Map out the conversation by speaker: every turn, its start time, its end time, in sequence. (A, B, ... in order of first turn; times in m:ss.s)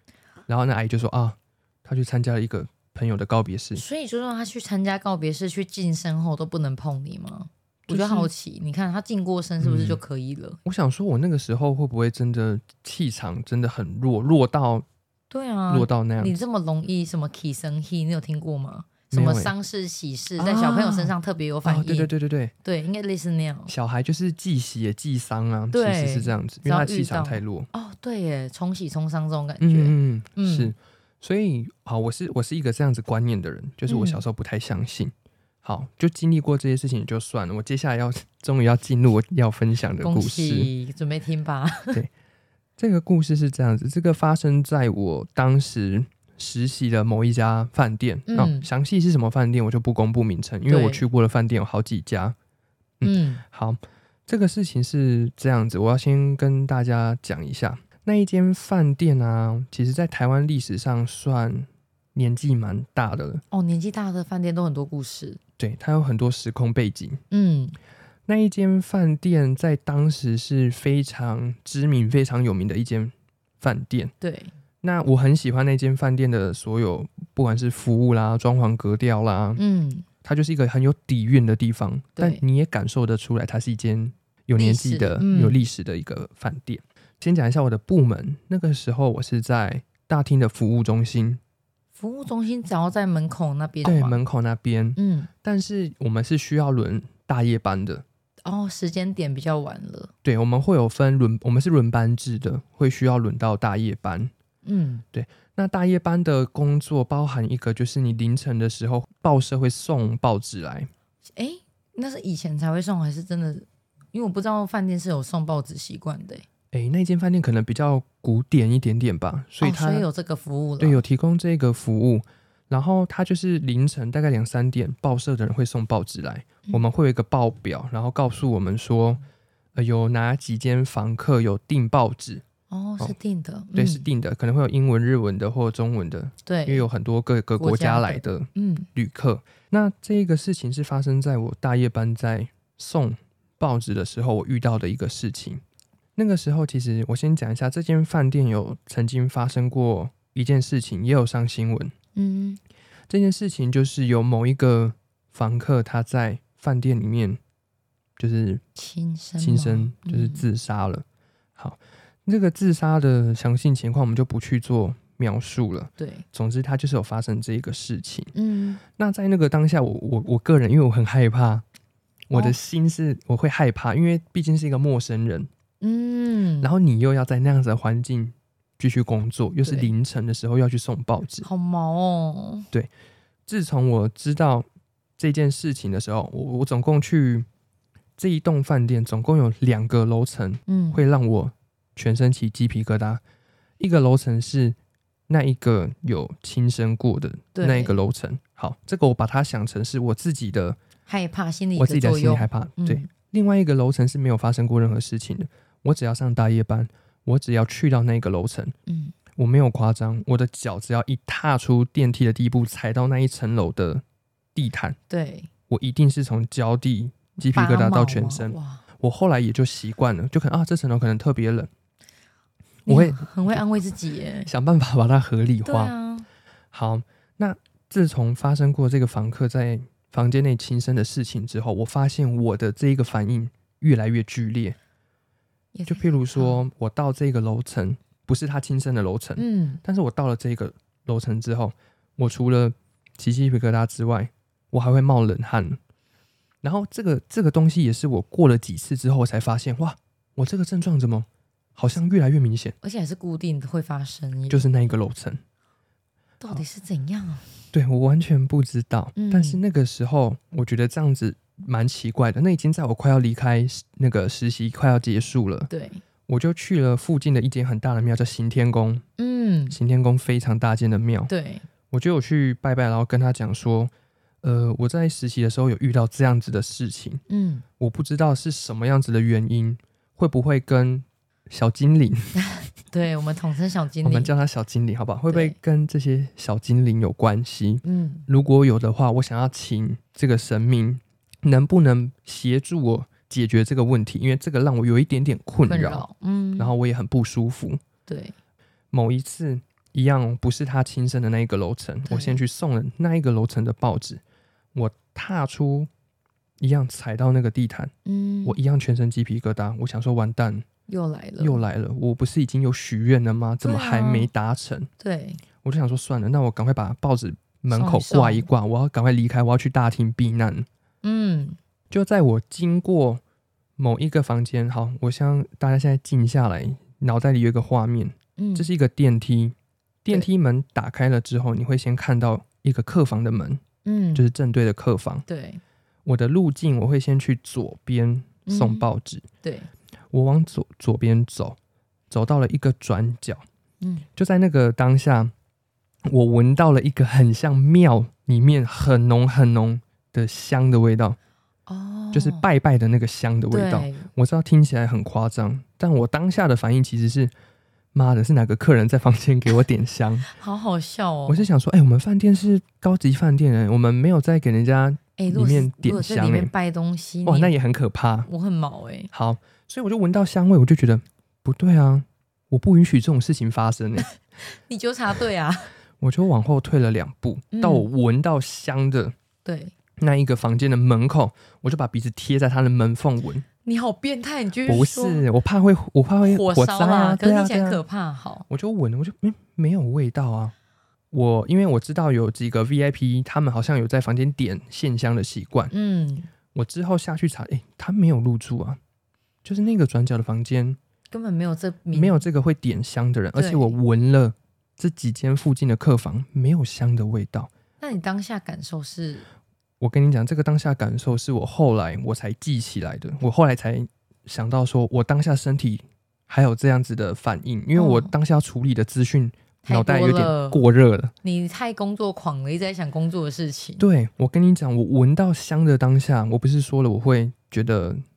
0:00.5-0:03.8 A
0:03.8-0:10.6 B
0:07.9-0:08.3 A
0:09.6-0:10.0 A
0:10.7-0:14.9 A
0:15.3-0:22.1 B
0:15.7-0:16.4 A
0:19.1-0:19.5 A
0:20.4-0:21.1 A
0:21.6-0:22.5 A
0:22.6-0:23.7 B
0:23.7-0:27.7 A
0:25.7-0:30.7 B
0:29.6-0:40.7 A
0:33.9-0:34.2 B
0:40.0-0:42.0 B
0:42.8-0:52.4 A
0:48.3-0:48.7 B
0:50.7-0:51.0 B
0:53.0-1:03.4 A
0:53.0-0:53.4 B
1:03.5-1:05.4 B
1:05.6-1:07.2 A
1:07.3-1:07.8 B
1:08.3-1:14.1 A
1:14.2-1:14.5 B
1:14.8-1:19.6 A
1:19.6-1:20.1 B
1:20.2-1:31.4 A
1:22.2-1:22.4 B
1:24.6-1:25.6 B
1:32.0-1:34.2 B
1:33.8-1:38.0 A
1:35.0-1:35.3 B
1:38.5-1:40.1 B
1:40.2-1:44.3 A
1:44.6-1:45.0 B
1:45.1-1:50.9 A
1:51.4-1:56.4 B
1:56.7-2:00.1 A
1:59.6-2:01.0 B
2:00.8-2:09.2 A
2:09.8-2:12.4 A
2:12.7-2:14.1 B
2:13.8-2:25.6 A
2:16.5-2:16.9 B
2:17.6-2:18.9 B
2:26.2-2:31.9 A
2:32.1-2:32.6 B
2:33.1-2:37.4 A
2:38.2-2:38.6 A
2:38.8-2:40.4 B
2:39.4-2:41.0 A
2:41.6-2:48.3 A
2:46.0-2:46.2 B
2:48.3-2:48.8 B
2:48.9-2:51.6 A
2:52.3-2:55.5 A
2:52.3-2:52.6 B
2:55.8-2:56.7 B
2:56.6-3:01.5 A
2:59.6-2:59.9 B
3:01.4-3:02.7 B
3:03.5-3:04.7 A
3:05.2-3:07.5 A
3:08.2-3:13.2 A
3:10.7-3:11.0 B
3:13.8-3:14.8 A
3:15.3-3:20.8 A
3:17.6-3:18.0 B
3:21.1-3:23.1 B
3:21.8-3:28.8 A
3:28.9-3:29.2 B
3:29.4-3:34.0 A
3:34.6-3:35.0 A
3:35.1-3:35.5 B
3:35.7-3:41.7 A
3:37.5-3:38.8 B
3:42.9-3:43.6 A
3:42.9-3:44.5 B
3:44.5-3:45.9 A
3:45.6-3:46.2 B
3:46.7-3:54.8 A
3:55.7-3:56.7 B
3:55.9-4:05.8 A
3:59.4-3:59.8 B
4:06.6-4:12.8 A
4:12.8-4:14.7 B
4:14.5-4:15.4 A
4:16.4-4:17.5 B
4:17.7-4:25.7 A
4:19.2-4:19.6 B
4:25.7-4:26.0 B
4:26.3-4:29.0 A
4:29.2-4:29.8 B
4:29.7-4:31.3 A
4:31.3-4:31.7 B
4:31.9-4:37.2 A
4:37.3-4:37.6 B
4:37.8-4:42.3 A
4:42.4-4:44.3 B
4:44.0-4:56.1 A
4:45.3-4:45.6 B
4:47.8-4:48.3 B
4:55.6-4:56.7 B
4:56.6-4:57.8 A
4:58.1-4:58.3 B
4:58.9-5:04.2 A
5:02.1-5:02.4 B
5:04.7-5:05.9 A
5:06.6-5:07.9 A
5:08.0-5:08.6 B
5:08.4-5:10.6 A
5:10.9-5:11.6 B
5:11.4-5:14.9 A
5:13.6-5:14.3 B
5:15.0-5:15.4 B
5:15.6-5:20.7 A
5:17.7-5:18.5 B
5:21.0-5:21.6 B
5:21.9-5:23.2 A
5:23.8-5:33.6 A
5:28.4-5:28.7 B
5:33.8-5:34.3 B
5:34.1-5:35.2 A
5:35.3-5:35.6 B
5:36.1-5:39.2 A
5:38.5-5:38.9 B
5:39.4-5:39.7 B
5:40.1-5:41.6 A
5:42.1-5:43.4 A
5:43.8-5:44.1 B
5:44.2-5:45.3 A
5:46.1-5:51.2 A
5:51.7-5:52.4 B
5:52.1-5:57.3 A
5:53.5-5:54.1 B
5:57.9-6:00.3 A
6:00.3-6:01.5 B
6:01.3-6:06.5 A
6:05.2-6:07.5 B
6:07.2-6:08.3 A
6:08.3-6:09.1 B
6:09.1-6:14.1 A
6:14.0-6:15.7 B
6:16.0-6:19.1 A
6:17.5-6:17.9 B
6:19.4-6:19.7 B
6:20.0-6:23.4 A
6:23.6-6:25.2 B
6:24.6-6:27.8 A
6:26.2-6:28.5 B
6:28.5-6:30.5 A
6:31.1-6:35.7 A
6:35.7-6:36.3 B
6:36.5-6:38.8 A
6:39.4-6:40.8 A
6:41.1-6:42.2 B
6:41.9-6:47.5 A
6:43.4-6:43.8 B
6:47.8-6:49.2 B
6:49.8-7:01.1 A
6:57.8-6:58.1 B
6:59.7-7:00.6 B
7:01.2-7:03.8 B
7:03.8-7:08.0 A